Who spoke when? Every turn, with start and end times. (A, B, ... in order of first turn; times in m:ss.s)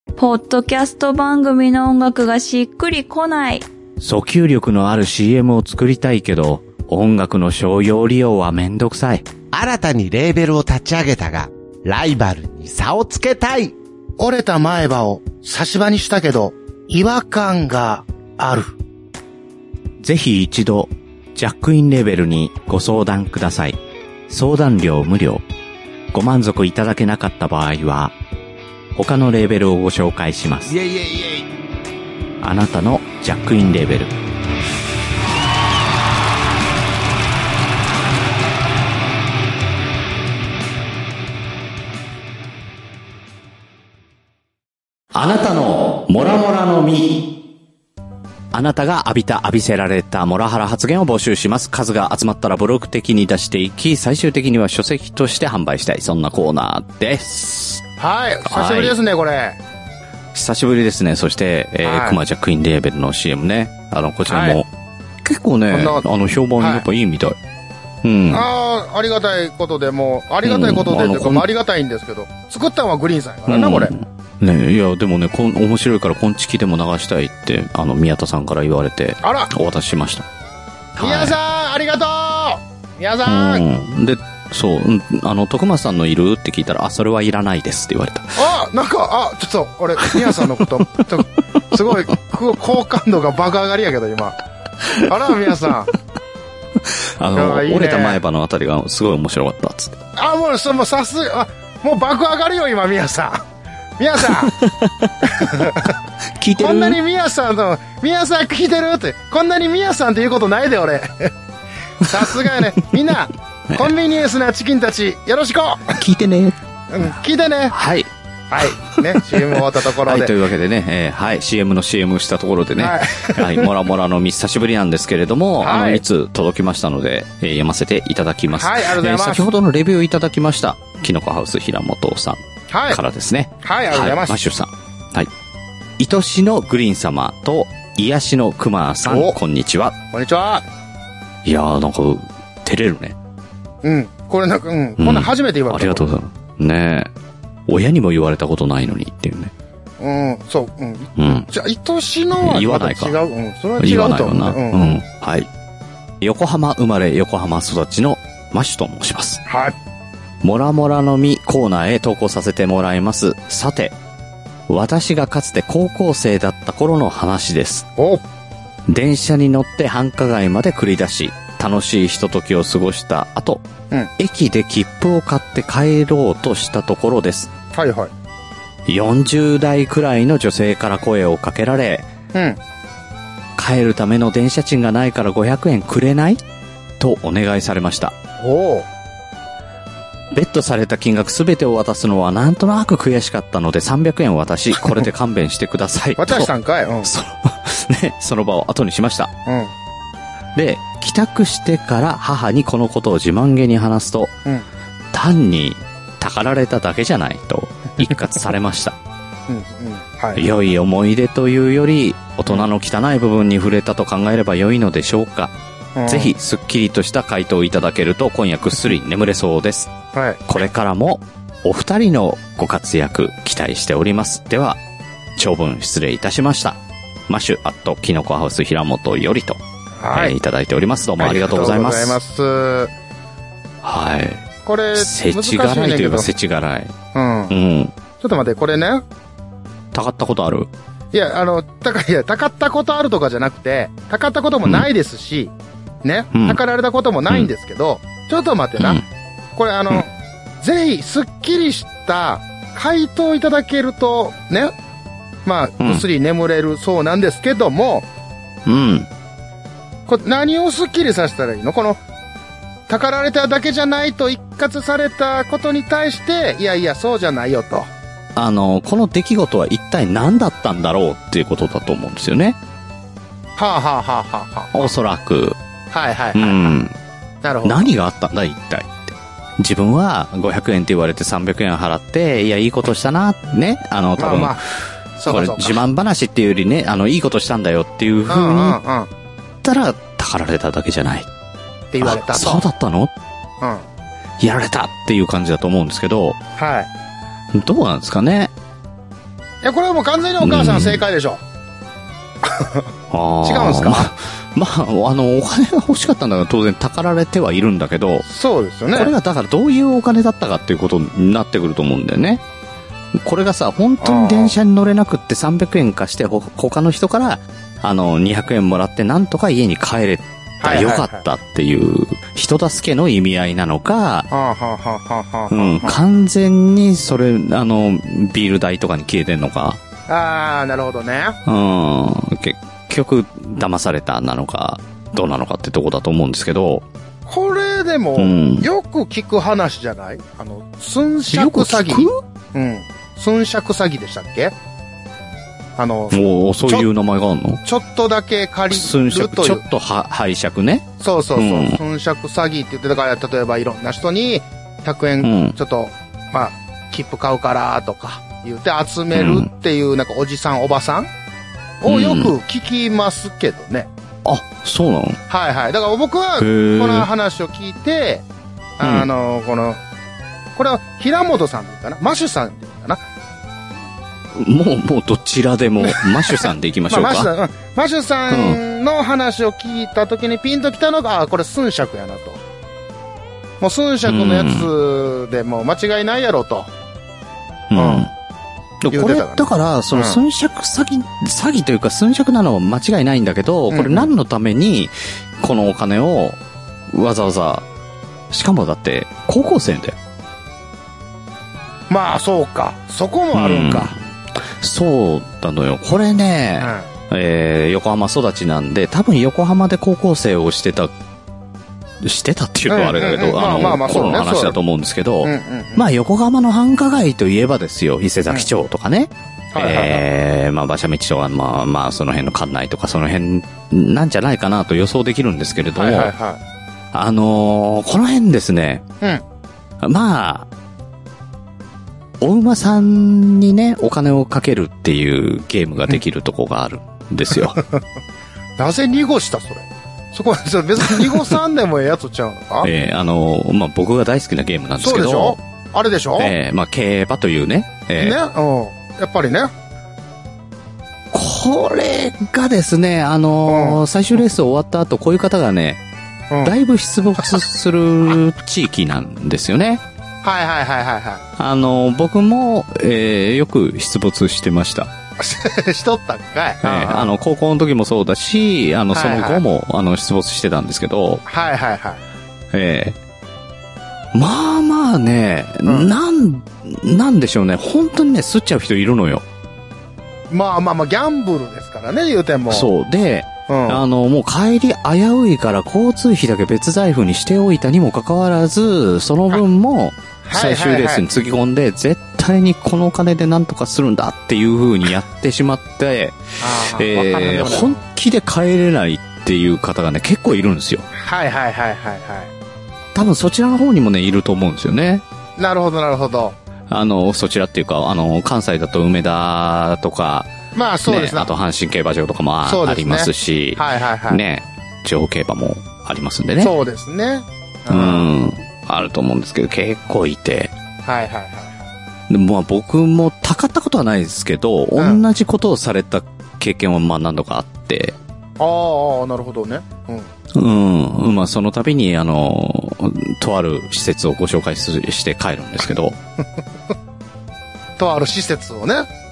0:00.2-0:03.7 A
0:04.0-0:09.3 B
0:09.5-0:13.7 C
0:14.2-0:18.8 D
0:20.0-0:25.4 B
0:26.1-0:28.2 B
0:29.0-0:30.8 B
0:31.0-0:31.4 C
0:32.4-0:34.2 B
0:45.1-0:47.2 B
0:48.5-0:57.8 B
0:58.0-0:59.6 D
0:58.4-0:59.0 B
1:00.3-1:04.7 B
1:01.8-1:02.2 D
1:04.3-1:04.6 D
1:05.2-1:07.4 B
1:05.7-1:06.0 D
1:06.6-1:06.8 D
1:08.0-1:08.5 B
1:08.3-1:13.9 D
1:10.4-1:11.5 B
1:13.5-1:20.2 B
1:19.2-1:19.5 D
1:21.0-1:21.4 B
1:21.0-1:23.6 D
1:23.2-1:28.4 B
1:28.4-1:34.4 D
1:35.0-1:35.9 D
1:36.9-1:40.0 B
1:37.3-1:38.2 D
1:40.2-1:43.4 D
1:44.0-1:44.5 D
1:44.4-1:45.1 B
1:45.2-1:46.0 D
1:46.4-1:47.0 B
1:46.6-1:51.3 D
1:52.0-1:56.0 D
1:56.0-1:56.6 B
1:56.9-1:57.8 D
1:57.7-1:58.1 B
1:58.5-2:00.3 D
1:58.6-2:12.4 B
2:02.8-2:03.7 D
2:05.6-2:06.0 D
2:08.6-2:09.5 D
2:12.7-2:13.0 D
2:12.9-2:15.3 B
2:13.6-2:14.4 D
2:16.0-2:20.0 B
2:19.1-2:19.4 D
2:20.1-2:20.6 D
2:21.4-2:23.2 B
2:23.8-2:26.1 D
2:25.0-2:27.1 B
2:27.7-2:29.5 B
2:30.0-2:35.0 D
2:31.2-2:31.5 B
2:32.4-2:33.2 B
2:33.8-2:35.5 B
2:36.2-2:39.4 B
2:39.5-2:39.8 D
2:40.4-2:44.0 B
2:44.7-2:47.9 B
2:48.0-2:48.2 D
2:48.9-2:53.6 B
2:54.2-2:57.5 B
2:57.7-2:58.1 D
2:58.9-3:02.1 B
3:02.3-3:02.6 D
3:03.6-3:06.4 B
3:07.0-3:08.1 B
3:08.4-3:08.9 D
3:10.3-3:16.5 B
3:16.2-3:17.1 D
3:17.0-3:19.3 B
3:19.5-3:19.7 D
3:20.6-3:24.3 B
3:25.1-3:29.0 B
3:29.5-3:30.5 D
3:30.4-3:35.5 B
3:36.0-3:36.3 D
3:36.1-3:39.9 B
3:40.1-3:40.4 D
3:40.5-3:44.8 B
3:45.4-3:52.2 B
3:50.0-3:50.4 D
3:51.2-3:52.9 D
3:53.8-3:56.9 B
3:54.6-3:56.3 D
3:57.1-3:57.6 D
3:57.5-3:58.0 B
3:58.2-3:59.0 D
3:59.9-4:00.7 B
4:01.1-4:05.5 D
4:06.0-4:09.0 D
4:06.3-4:06.6 B
4:08.8-4:09.0 B
4:09.6-4:10.1 D
4:10.6-4:14.7 D
4:15.4-4:18.1 D
4:18.7-4:19.1 B
4:20.1-4:22.0 D
4:22.9-4:27.9 D
4:28.4-4:32.6 B
4:33.6-4:34.9 D
4:34.7-4:35.6 B
4:35.9-4:36.8 D
4:36.4-4:37.0 B
4:37.4-4:37.9 D
4:37.6-4:44.6 B
4:44.2-4:44.6 D
4:45.2-4:45.8 D
4:45.3-4:48.8 B
4:48.3-4:49.1 D
4:49.6-4:51.3 B
4:51.9-4:52.6 D
4:52.0-4:53.1 B
4:54.4-4:56.4 B
4:56.6-4:56.9 D
4:57.5-4:58.5 B
4:59.6-5:01.4 D
5:00.4-5:01.0 B
5:02.4-5:02.9 D
5:03.1-5:08.2 B
5:03.4-5:04.1 D
5:08.2-5:09.1 D
5:08.9-5:12.4 B
5:13.2-5:24.3 B
5:14.0-5:14.6 D
5:20.6-5:21.2 D
5:24.3-5:26.0 D
5:25.5-5:29.8 B
5:30.1-5:31.4 D
5:31.5-5:36.8 B
5:37.3-5:44.5 D
5:38.2-5:38.7 B
5:41.3-5:42.2 B
5:45.8-5:46.9 D
5:46.1-5:47.6 B
5:47.6-5:49.6 D
5:48.7-5:51.8 B
5:51.0-6:01.1 D
5:55.2-5:55.6 B
5:59.1-5:59.5 B
6:01.8-6:03.9 D
6:01.9-6:02.3 B
6:04.2-6:05.2 B
6:05.3-6:08.2 D
6:06.4-6:07.1 B
6:08.8-6:09.8 D
6:08.8-6:09.1 B
6:10.6-6:13.0 D
6:14.4-6:17.3 B
6:15.8-6:22.4 D
6:18.3-6:18.6 B
6:23.6-6:26.7 D
6:24.0-6:24.7 B
6:27.7-6:28.1 B
6:27.8-6:28.1 D
6:28.8-6:36.4 B
6:28.9-6:30.2 D
6:33.7-6:34.1 D
6:36.9-6:37.7 B
6:38.3-6:40.0 B
6:41.9-6:44.0 D
6:43.3-6:50.9 B
6:46.6-6:46.9 D
6:52.0-7:06.1 B
6:52.7-6:54.6 D
6:55.2-6:55.9 D
6:59.5-7:00.0 D
7:05.8-7:06.4 D
7:06.9-7:08.8 B
7:09.8-7:10.5 B
7:12.2-7:17.6 B
7:17.3-7:17.8 D
7:18.6-7:22.7 D
7:22.6-7:25.4 B
7:24.8-7:26.3 D
7:26.2-7:28.2 B
7:28.0-7:29.5 D
7:31.1-7:35.8 B
7:33.5-7:33.8 D
7:36.4-7:39.8 B
7:40.2-7:41.2 D
7:41.4-7:44.9 B
7:45.2-7:47.2 D
7:46.6-7:51.2 B
7:48.9-7:49.4 D
7:51.3-7:52.0 D
7:52.5-7:53.0 B
7:54.1-7:59.2 B
7:55.6-7:55.9 D
8:00.3-8:02.7 D
8:02.5-8:20.9 B
8:03.5-8:03.8 D
8:10.2-8:11.0 D
8:16.4-8:17.8 D
8:21.0-8:22.3 D
8:23.0-8:25.0 B
8:25.4-8:26.4 D
8:26.7-8:30.3 B
8:30.5-8:31.3 D
8:30.9-8:36.5 B
8:32.4-8:34.2 D
8:36.4-8:38.2 D
8:37.7-8:40.5 B
8:40.8-8:41.6 D
8:42.1-8:48.0 B
8:44.8-8:45.0 D
8:48.4-8:50.1 D
8:50.4-8:56.0 B
8:57.8-8:58.9 D